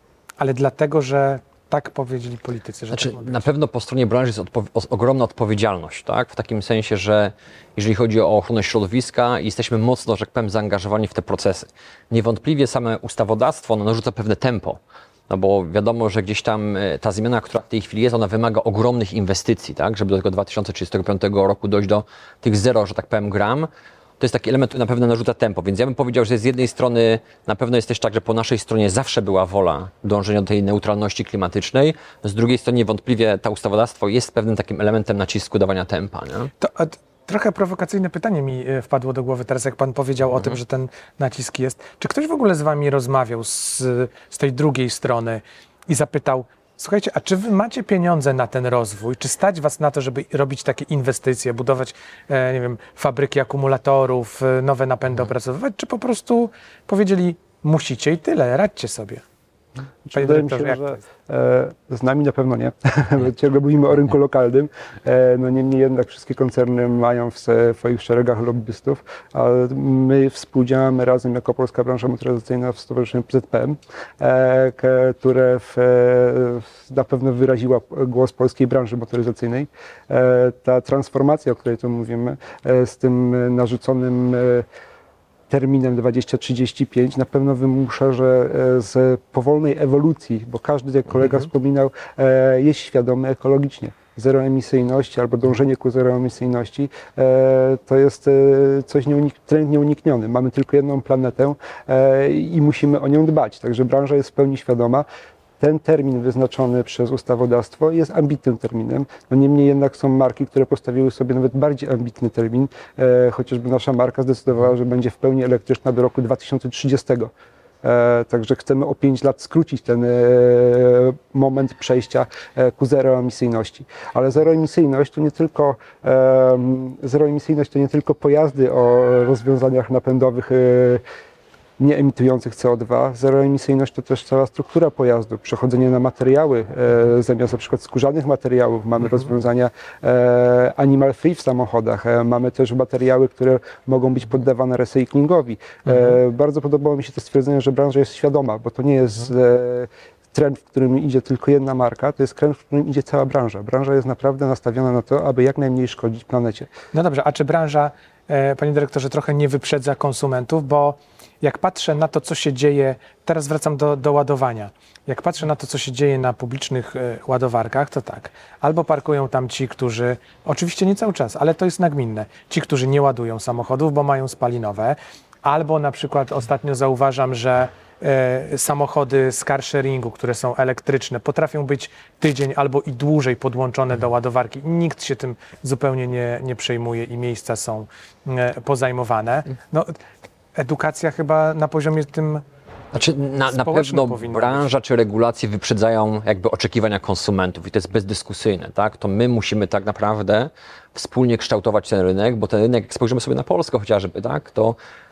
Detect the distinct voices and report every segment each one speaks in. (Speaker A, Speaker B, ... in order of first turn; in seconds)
Speaker A: 0.4-3.4, 36.6-59.2, 60.1-61.0, 156.9-190.0, 190.6-192.4, 193.5-194.7
Speaker B: 2.9-14.8, 15.3-23.7, 24.2-36.5, 192.9-204.8
Speaker C: 60.0-84.7, 85.5-105.0, 105.6-117.3, 117.8-131.0, 131.8-156.7